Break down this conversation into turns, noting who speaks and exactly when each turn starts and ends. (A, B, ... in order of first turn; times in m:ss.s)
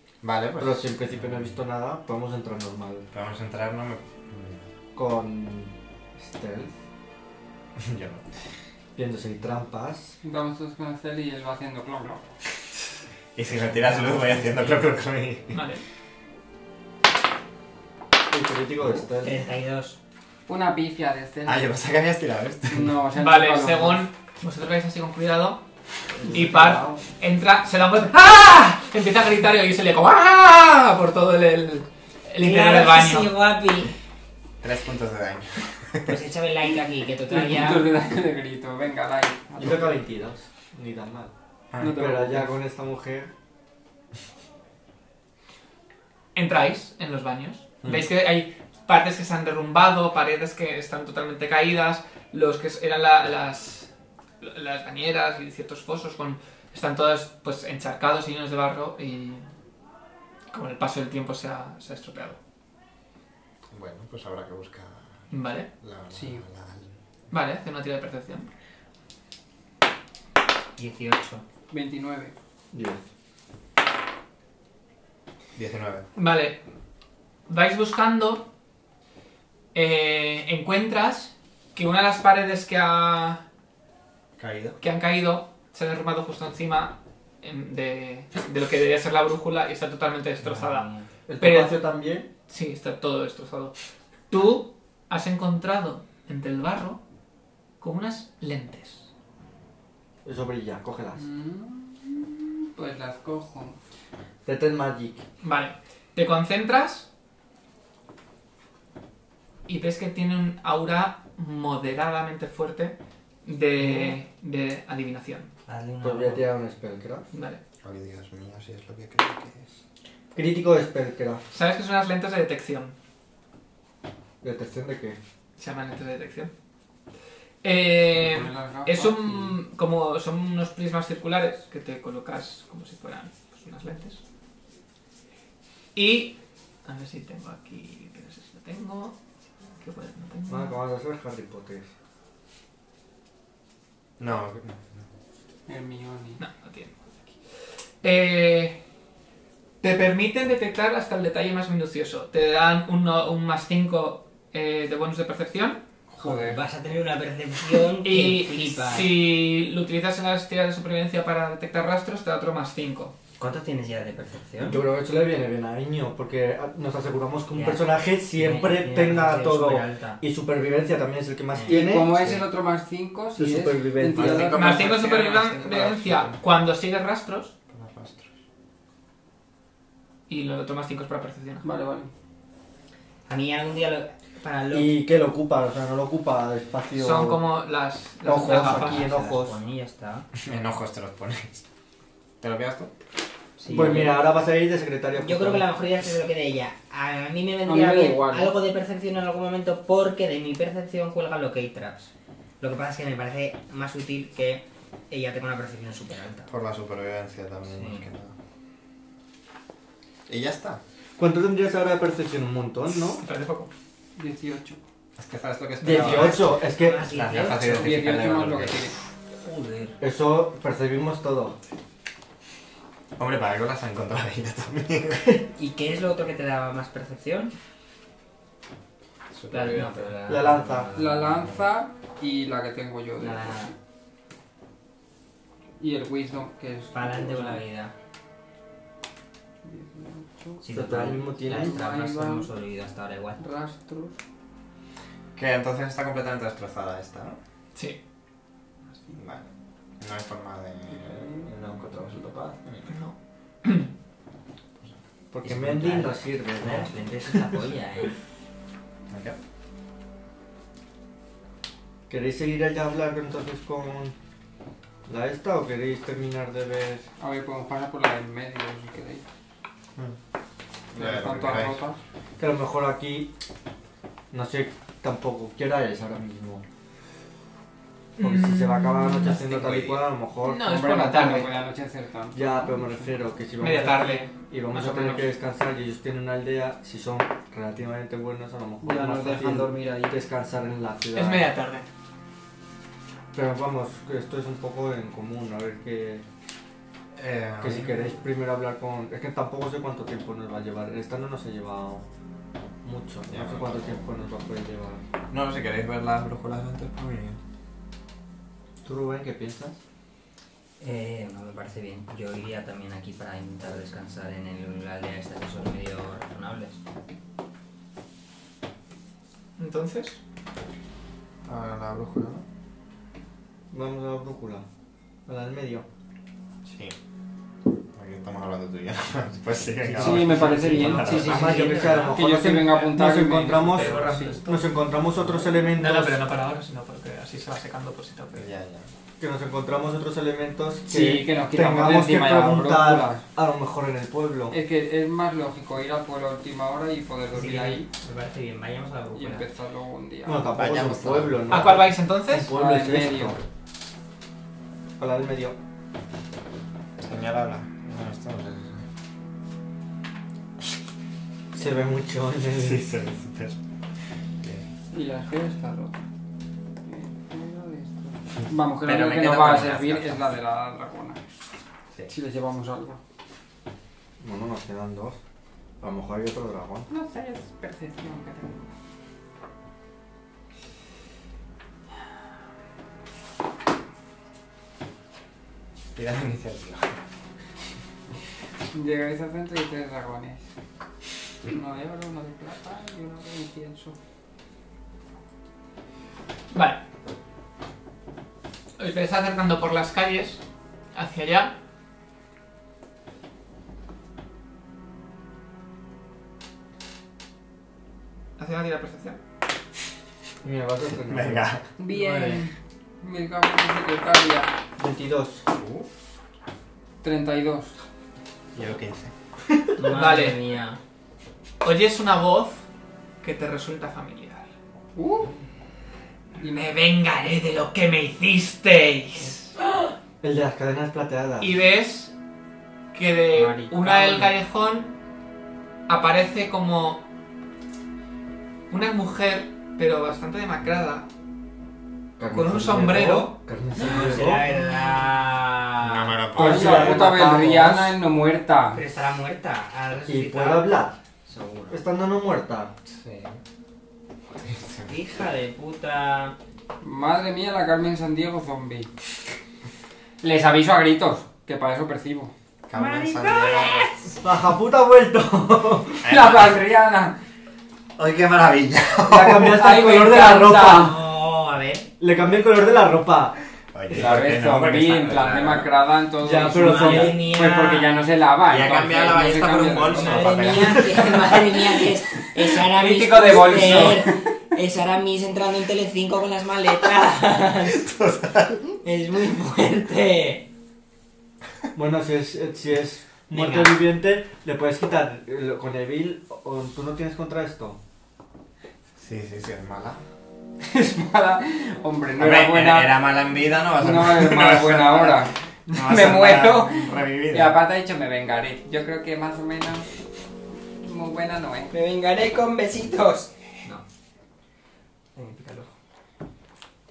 0:00.2-0:01.5 A
0:00.6-0:03.1 B
0:03.1-0:04.7 A
0:05.0-0:06.7 B
0:07.8-0:08.3 A
0:09.0-0:10.2 B
0:10.2-0:12.3 C
0:13.4-0:15.6 A
0:13.6-0:14.8 D
0:15.5-0:15.8 E
0:18.3-0:19.4 B
0:19.2-0:20.0 D
0:20.5-0:21.7 C
0:21.4-0:23.0 A
0:22.7-0:24.1 C
0:23.2-0:25.6 E
0:26.2-0:27.0 B
0:26.2-0:33.3 E
0:32.4-0:34.0 D
0:34.6-0:36.1 A
0:36.1-0:37.9 D
0:37.3-0:40.0 C
0:39.6-0:43.3 B
0:41.7-0:42.0 A
0:41.8-0:42.6 C
0:46.4-0:59.5 E
1:00.5-1:02.4 E
1:03.7-1:05.2 A
1:05.3-1:05.7 E
1:05.8-1:06.9 A
1:06.1-1:06.4 C
1:07.3-1:08.5 E
1:10.8-1:11.4 D
1:11.7-1:12.3 C
1:12.7-1:13.0 B
1:15.6-1:16.0 A
1:16.2-1:16.6 E
1:17.5-1:18.5 E
1:19.7-1:23.4 E
1:24.4-1:24.8 A
1:24.8-1:30.9 E
1:30.4-1:31.1 D
1:31.3-1:32.3 B
1:31.4-1:31.8 E
1:32.5-1:33.8 E
1:34.3-1:37.0 E
1:37.8-1:39.1 E
1:40.2-1:41.2 B
1:41.2-1:43.8 C
1:44.4-1:45.2 B
1:45.4-1:47.1 E
1:49.7-1:55.5 E
1:55.7-1:56.5 D
1:56.0-1:57.3 B
1:57.3-1:57.6 E
1:57.8-1:59.7 A
2:00.3-2:01.4 B
2:01.5-2:03.0 E
2:04.4-2:05.2 B
2:05.6-2:06.5 E
2:07.6-2:14.2 E
2:08.1-2:09.3 C
2:16.0-2:19.2 E
2:19.8-2:20.8 E
2:20.5-2:21.9 B
2:24.2-2:25.1 A
2:25.7-2:26.4 C
2:26.4-2:27.1 E
2:28.0-2:28.8 E
2:29.8-2:35.8 E
2:36.2-2:36.6 C
2:36.2-2:39.1 D
2:38.0-2:43.1 E
2:43.4-2:44.8 D
2:44.6-2:52.3 B
2:47.5-2:50.2 D
2:51.5-2:51.9 D
2:51.7-2:55.1 C
2:53.4-2:54.6 B
2:54.1-2:56.4 A
2:54.6-2:57.5 E
2:57.7-2:58.3 A
3:00.3-3:01.6 E
3:01.6-3:02.1 C
3:03.3-3:04.9 D
3:04.7-3:07.4 B
3:07.0-3:09.1 E
3:08.2-3:09.6 B
3:08.4-3:10.3 D
3:10.4-3:11.6 A
3:12.4-3:12.9 A
3:13.6-3:14.2 D
3:13.7-3:15.7 B
3:15.2-3:26.5 D
3:17.6-3:18.6 C
3:26.5-3:28.4 A
3:27.7-3:28.1 D
3:30.3-3:30.8 A
3:31.2-3:33.2 B
3:33.2-3:33.7 E
3:34.2-3:34.8 C
3:35.2-3:36.5 A
3:35.8-3:37.0 B
3:35.9-3:37.9 D
3:37.1-3:38.9 A
3:37.5-3:39.0 C
3:39.4-3:40.0 D
3:40.0-3:41.6 B
3:43.2-3:45.4 A
3:45.6-3:47.5 D
3:49.3-3:50.1 A
3:49.5-3:51.5 D
3:50.3-3:50.9 B
3:50.9-3:53.6 C
3:53.2-3:53.7 D
3:55.8-3:57.6 C
3:56.9-3:57.9 D
3:59.6-4:02.5 C
4:00.6-4:03.4 D
4:00.7-4:01.8 B
4:03.4-4:04.2 C
4:05.4-4:07.4 A
4:09.1-4:12.9 A
4:10.9-4:11.5 C
4:12.9-4:13.9 E
4:15.3-4:17.6 B
4:15.4-4:18.1 D
4:19.1-4:19.4 A
4:22.1-4:24.2 B
4:25.1-4:27.1 B
4:27.2-4:29.3 C
4:30.9-4:31.8 A
4:31.0-4:32.0 C
4:32.4-4:33.3 B
4:34.3-4:36.6 B
4:38.2-4:39.4 E
4:38.2-4:40.6 B
4:39.3-4:40.0 A
4:40.4-4:41.5 E
4:40.6-4:43.2 C
4:42.3-4:51.5 B
4:43.6-4:45.3 E
4:48.8-4:50.2 C
4:51.2-4:51.9 E
4:53.3-4:56.2 B
4:57.2-4:58.1 A
4:57.6-5:02.0 B
5:02.8-5:05.0 B
5:03.3-5:04.1 A
5:05.3-5:07.4 A
5:08.8-5:09.8 B
5:10.8-5:16.8 D
5:19.6-5:20.2 E
5:21.4-5:22.4 A
5:23.7-5:24.6 B
5:25.3-5:25.8 B
5:26.7-5:27.0 A
5:28.0-5:31.5 A
5:29.9-5:36.2 B
5:29.9-5:34.4 C
5:30.7-5:32.1 E
5:31.2-5:32.2 D
5:33.6-5:34.7 E
5:35.7-5:38.5 E
5:38.4-5:38.9 A
5:39.2-5:44.6 B
5:40.9-5:43.2 C
5:44.5-5:47.9 C
5:47.3-5:49.5 D
5:49.1-5:50.5 C
5:50.3-5:53.4 B
5:50.5-5:51.6 A
5:51.5-5:52.5 E
5:52.4-5:53.4 C
5:55.0-5:55.6 B
5:57.0-5:58.8 A
6:01.5-6:02.8 B
6:02.6-6:03.6 A
6:04.4-6:04.7 A
6:04.9-6:06.0 C
6:06.8-6:11.2 C
6:08.8-6:10.3 A
6:12.1-6:13.0 C
6:14.2-6:15.2 B
6:15.8-6:16.9 B
6:16.9-6:18.7 C
6:26.0-6:27.0 A
6:28.7-6:30.5 C
6:31.5-6:34.0 C
6:36.5-6:36.8 E
6:38.8-6:40.4 E
6:40.9-6:41.5 E
6:48.4-6:49.2 E
6:50.4-6:52.4 B
6:51.1-6:51.6 A
6:51.8-6:54.5 C
6:54.8-6:55.4 B
6:55.5-6:55.9 A
6:57.0-6:57.8 C
6:58.6-6:59.1 A
6:59.8-7:00.8 D
6:59.9-7:00.4 E
7:01.6-7:02.6 E
7:03.2-7:04.5 E
7:05.0-7:05.3 C
7:06.4-7:09.5 E
7:10.2-7:11.5 B
7:11.4-7:12.1 E
7:12.9-7:14.9 E
7:13.3-7:14.3 C
7:15.9-7:17.0 E
7:18.7-7:21.1 E
7:22.2-7:24.4 B
7:22.3-7:23.4 E
7:23.8-7:26.2 D
7:25.8-7:27.1 A
7:26.4-7:28.8 C
7:26.4-7:28.0 B
7:28.7-7:31.7 D
7:30.1-7:31.0 B
7:31.7-7:32.7 B
7:32.9-7:33.4 A
7:34.4-7:34.9 A
7:34.9-7:36.4 D
7:36.8-7:38.9 C
7:40.2-7:42.3 C
7:42.7-7:43.9 A
7:42.7-7:44.2 D
7:44.2-7:46.0 B
7:46.0-7:46.6 A
7:46.0-7:47.2 C
7:48.0-7:49.6 A
7:49.1-7:51.0 B
7:49.4-7:50.9 C
7:50.5-7:51.9 D
7:52.0-7:53.4 B
7:53.7-7:55.7 A
7:53.9-7:54.2 B
7:53.9-8:00.8 C
7:56.2-7:57.2 B
7:56.5-7:58.1 D
7:58.4-8:01.4 A
7:59.9-8:07.9 D
8:02.5-8:04.3 C
8:07.7-8:08.7 A
8:08.8-8:10.5 D
8:11.8-8:17.8 B
8:13.3-8:13.8 D
8:19.0-8:20.0 A
8:20.7-8:23.0 C
8:22.2-8:27.6 A
8:23.7-8:29.9 C
8:30.8-8:31.8 C
8:31.7-8:33.8 D
8:35.2-8:35.7 D